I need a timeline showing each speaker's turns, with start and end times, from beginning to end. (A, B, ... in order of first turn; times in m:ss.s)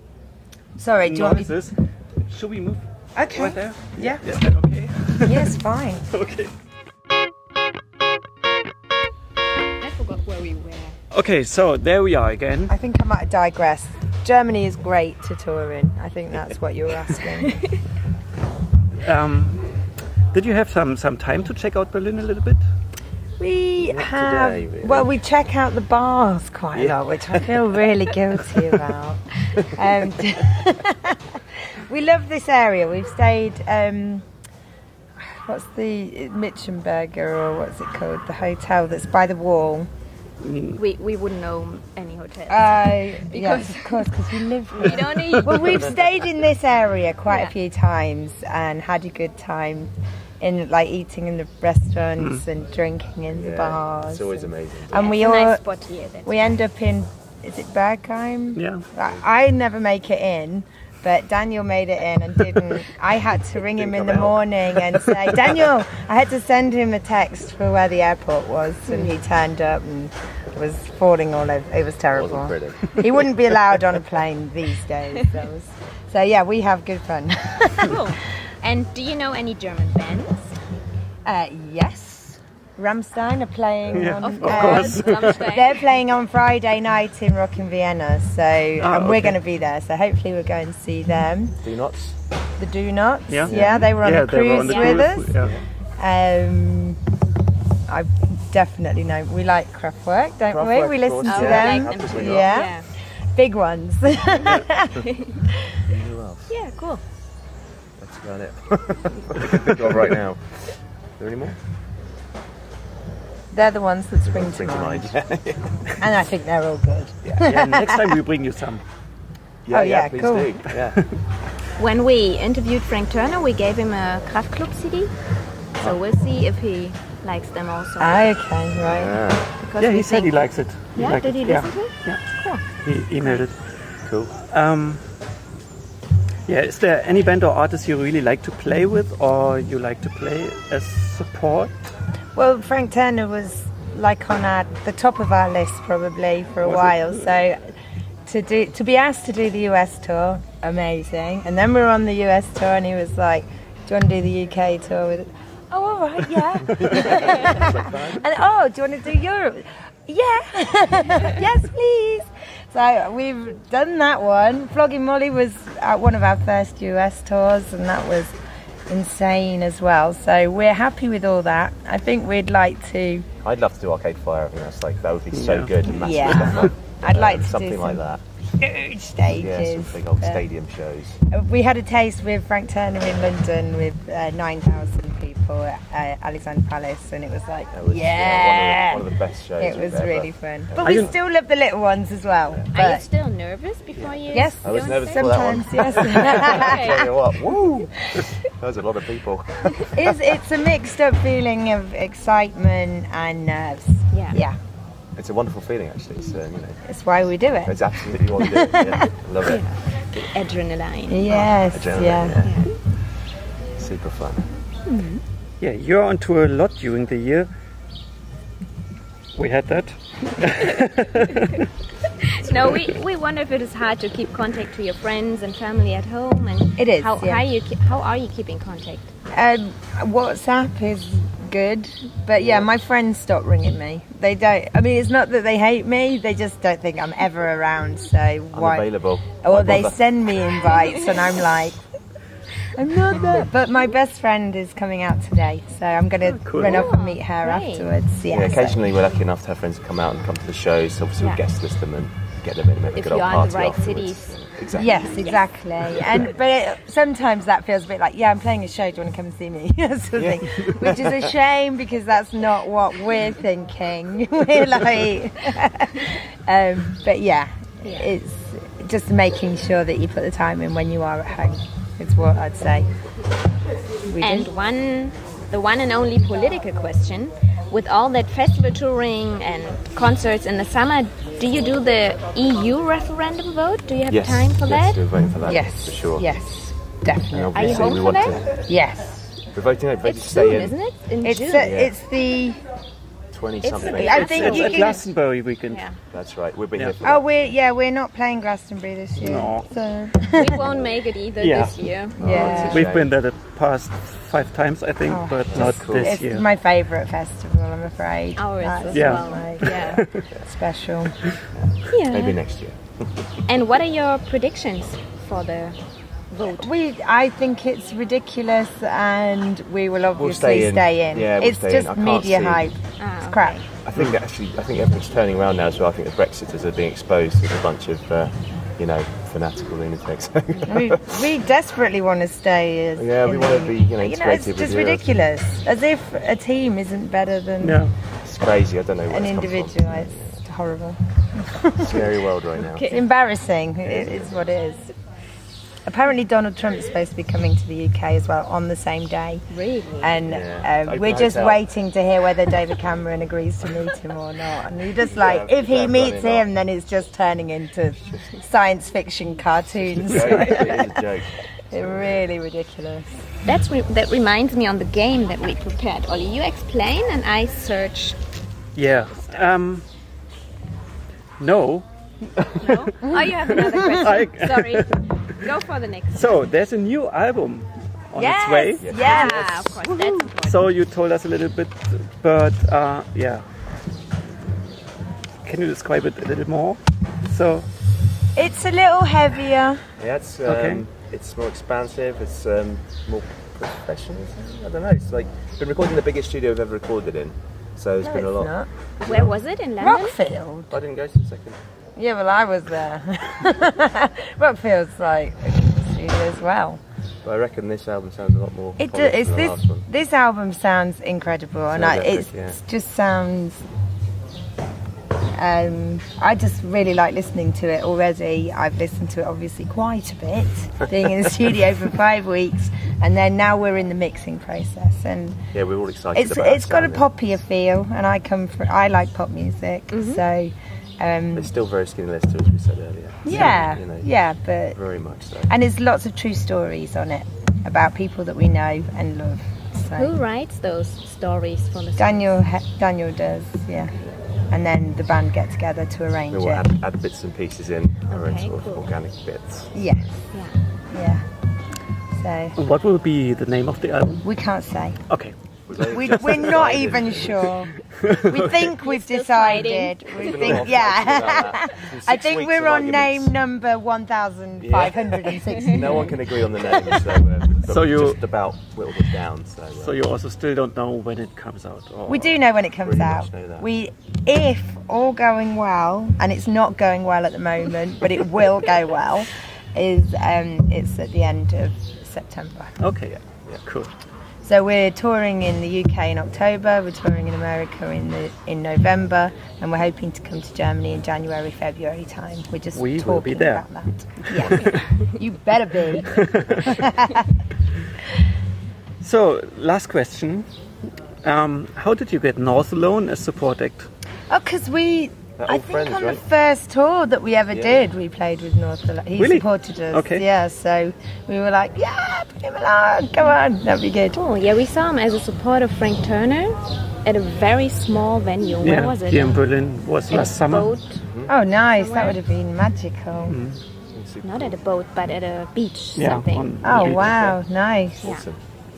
0:00.8-0:01.6 A
0:01.0-0:01.7 B
0:02.3-0:05.6 B
0:03.2-0:04.2 A
0:04.0-0:04.4 C
0:05.2-0:06.1 A
0:06.1-0:06.5 B
0:09.8-0:11.0 D
0:11.1-0:12.7 B
0:12.7-0:17.6 A
0:19.0-0:19.7 B
0:20.3-0:22.6 B
0:23.4-0:31.2 A
0:23.8-0:25.1 C
0:26.7-0:27.6 C
0:31.9-0:34.2 A
0:35.2-0:39.9 A
0:40.4-0:40.8 B
0:40.8-0:44.1 D
0:42.5-0:55.6 A
0:44.7-0:46.0 D
0:52.2-0:52.4 B
0:53.3-0:55.2 C
0:54.9-0:56.6 D
0:56.3-1:18.0 A
0:58.6-0:58.8 B
1:03.7-1:05.1 C
1:08.9-1:09.2 D
1:12.1-1:13.0 C
1:17.8-1:20.5 D
1:21.3-1:31.6 A
1:23.9-1:25.5 B
1:24.2-1:25.8 D
1:28.8-1:29.4 B
1:31.6-1:32.2 C
1:32.6-1:35.4 A
1:33.3-1:35.5 B
1:33.5-1:33.9 C
1:34.6-1:35.1 D
1:36.0-1:37.0 A
1:37.9-1:42.8 A
1:40.5-1:42.6 C
1:41.2-1:42.9 D
1:43.4-1:45.1 A
1:45.9-1:46.5 C
1:46.5-1:47.0 D
1:48.0-1:50.6 C
1:51.2-1:51.6 C
1:53.5-1:55.2 A
1:54.2-1:55.8 C
1:56.0-1:58.2 A
1:57.4-1:58.8 B
1:59.7-2:01.0 C
1:59.7-2:00.6 A
2:01.8-2:05.1 D
2:05.8-2:08.3 D
2:08.0-2:09.2 A
2:08.8-2:09.5 C
2:09.6-2:10.4 D
2:09.8-2:12.2 B
2:11.0-2:13.4 D
2:12.8-2:13.6 B
2:14.1-2:14.3 C
2:14.5-2:15.0 B
2:16.5-2:21.7 B
2:22.4-2:27.7 A
2:26.6-2:27.3 B
2:28.3-2:48.3 A
2:36.7-2:38.3 C
2:48.9-2:53.3 A
2:53.4-2:58.2 C
2:55.3-2:56.2 B
2:55.9-2:58.0 A
2:58.6-3:00.4 A
2:59.3-3:01.2 C
3:01.3-3:09.0 A
3:07.7-3:11.1 C
3:09.6-3:13.0 A
3:10.8-3:11.1 B
3:12.7-3:15.5 D
3:14.3-3:17.1 A
3:14.6-3:20.3 C
3:16.4-3:17.0 D
3:19.9-3:24.6 A
3:24.1-3:24.4 D
3:25.2-3:26.8 C
3:26.9-3:27.8 A
3:27.6-3:29.6 C
3:28.4-3:29.1 A
3:29.4-3:31.5 D
3:31.1-3:32.4 A
3:31.3-3:32.6 C
3:32.4-3:32.7 D
3:33.8-3:34.5 C
3:34.9-3:35.2 D
3:35.6-3:37.5 B
3:39.4-3:41.6 B
3:42.2-3:49.1 D
3:46.8-3:47.4 A
3:49.3-3:58.9 A
3:52.4-3:52.7 C
3:58.5-4:00.0 C
3:59.4-4:01.8 A
4:02.7-4:08.8 A
4:06.2-4:06.9 B
4:06.6-4:07.9 D
4:08.3-4:15.2 C
4:13.0-4:14.4 D
4:14.7-4:32.9 A
4:15.9-4:16.3 C
4:20.2-4:21.3 C
4:27.8-4:28.1 D
4:34.0-4:34.5 A
4:34.2-4:45.0 D
4:44.1-4:46.3 C
4:45.4-4:47.9 A
4:47.3-4:48.5 C
4:47.5-4:48.4 D
4:48.7-4:49.4 A
4:49.5-4:50.8 C
4:50.0-4:51.8 D
4:51.2-4:52.6 A
4:51.6-4:52.0 C
4:53.3-4:54.6 C
4:53.6-4:55.0 D
4:53.8-4:55.0 A
4:53.8-4:55.8 B
4:55.7-4:56.0 D
4:56.1-4:57.5 C
4:57.0-5:00.6 A
4:59.2-4:59.7 B
5:00.3-5:02.8 D
5:01.4-5:01.8 B
5:02.2-5:03.2 C
5:02.2-5:02.9 A
5:02.5-5:06.5 B
5:05.1-5:11.1 A
5:05.5-5:06.2 C
5:08.4-5:10.0 D
5:08.9-5:10.2 B
5:11.6-5:12.8 C
5:11.9-5:12.4 D
5:13.5-5:15.8 D
5:16.3-5:16.7 D
5:16.4-5:23.6 A
5:20.2-5:22.8 C
5:23.0-5:23.6 D
5:23.8-5:31.3 C
5:30.7-5:37.9 A
5:33.0-5:35.2 C
5:37.6-5:37.9 B
5:38.2-5:40.4 C
5:39.1-5:42.2 A
5:41.8-5:43.0 C
5:42.6-5:43.0 D
5:42.9-5:44.9 A
5:43.8-5:44.3 C
5:45.9-5:49.4 A
5:49.5-5:50.1 D
5:50.0-6:01.0 A
5:50.3-5:51.6 C
5:55.0-5:56.5 C
6:00.0-6:01.3 C
6:01.7-6:03.1 A
6:03.4-6:08.2 D
6:08.8-6:09.8 B
6:11.4-6:11.8 B
6:12.4-6:12.9 B
6:12.6-6:16.4 D
6:13.5-6:15.0 B
6:16.2-6:19.3 B
6:18.2-6:19.5 A
6:18.3-6:20.7 D
6:18.8-6:19.5 C
6:20.0-6:23.4 B
6:25.4-6:27.7 B
6:28.4-6:29.8 A
6:30.0-6:39.3 C
6:30.5-6:30.8 B
6:38.0-6:38.7 A
6:39.0-6:40.2 D
6:39.8-6:40.7 A
6:40.7-6:41.6 C
6:42.0-6:46.8 A
6:47.2-6:49.9 C
6:48.8-6:53.6 A
6:51.7-6:52.6 C
6:55.3-7:05.4 A
7:05.5-7:07.1 C
7:06.2-7:11.5 A
7:09.9-7:10.2 D
7:11.3-7:14.1 C
7:13.2-7:14.8 A
7:14.7-7:15.5 C
7:15.5-7:20.2 A
7:19.9-7:22.3 D
7:22.0-7:24.0 A
7:24.5-7:26.7 A
7:26.3-7:30.0 C
7:28.1-7:28.8 D
7:29.7-7:30.2 A
7:30.9-7:31.2 A
7:32.2-7:32.6 A
7:32.6-7:34.3 B
7:34.2-7:35.0 A
7:35.1-7:35.3 B
7:35.7-7:37.6 C
7:35.8-7:46.2 A
7:38.0-7:38.7 B
7:38.8-7:40.5 D
7:40.1-7:43.4 C
7:44.6-7:50.0 C
7:47.6-7:48.2 B
7:49.8-7:52.4 B
7:52.1-8:02.7 A
7:52.8-7:53.7 C
8:02.8-8:03.1 B
8:03.1-8:03.6 C
8:03.6-8:03.9 B
8:04.4-8:17.3 A
8:12.7-8:13.7 B
8:14.2-8:14.8 B
8:16.0-8:16.8 B
8:19.0-8:20.5 B
8:21.2-8:23.9 B
8:24.3-8:34.2 A
8:25.4-8:26.2 C
8:27.5-8:27.8 C
8:29.2-8:30.2 B
8:34.1-8:39.4 D
8:38.6-8:40.7 B
8:40.1-8:41.0 D
8:41.0-8:41.3 C
8:41.3-8:43.4 A
8:41.8-8:42.2 D
8:43.3-8:43.6 B
8:43.9-8:44.6 C
8:44.2-8:46.5 D
8:46.0-8:47.3 B
8:46.6-8:48.1 A
8:46.8-8:47.3 C
8:48.0-8:48.4 C